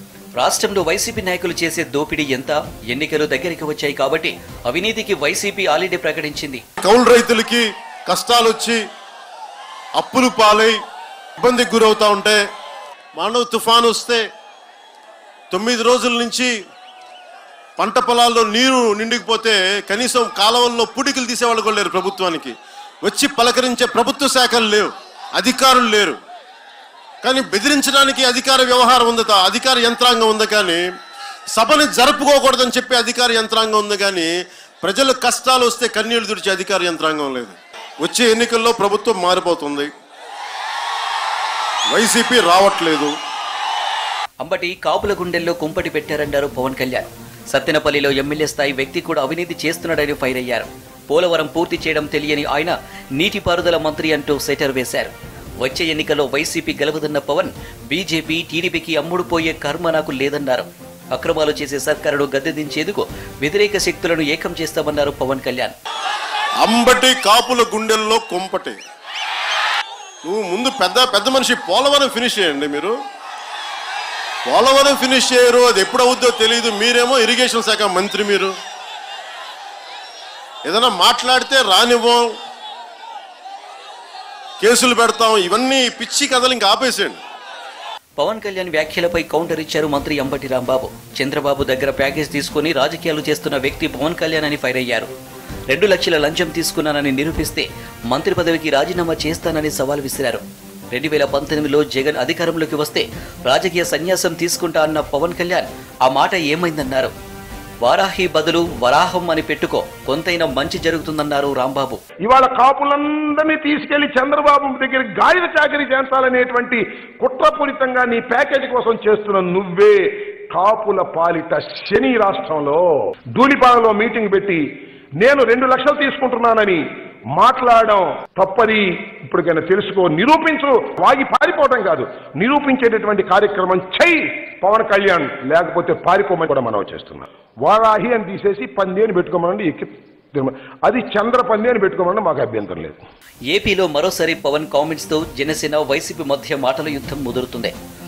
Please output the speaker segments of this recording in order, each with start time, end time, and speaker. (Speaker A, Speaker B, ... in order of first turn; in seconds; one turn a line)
Speaker A: 0.4-6.6
Speaker B: 6.8-8.8
Speaker B: 10.0-10.8
Speaker B: 11.4-12.4
Speaker B: 13.2-14.2
Speaker B: 15.5-16.5
Speaker B: 17.8-26.2
Speaker B: 27.2-30.8
Speaker B: 31.5-34.3
Speaker B: 34.8-39.9
Speaker B: 41.9-43.1
Speaker A: 44.4-65.8
Speaker B: 66.6-68.8
Speaker B: 70.2-73.0
Speaker B: 74.5-78.5
Speaker B: 80.7-82.2
Speaker B: 84.6-87.2
Speaker A: 88.2-95.1
Speaker A: 95.7-107.1
Speaker A: 107.8-112.0
Speaker C: 112.2-124.6
Speaker C: 125.2-126.8
Speaker C: 127.3-143.0
Speaker A: 143.5-147.7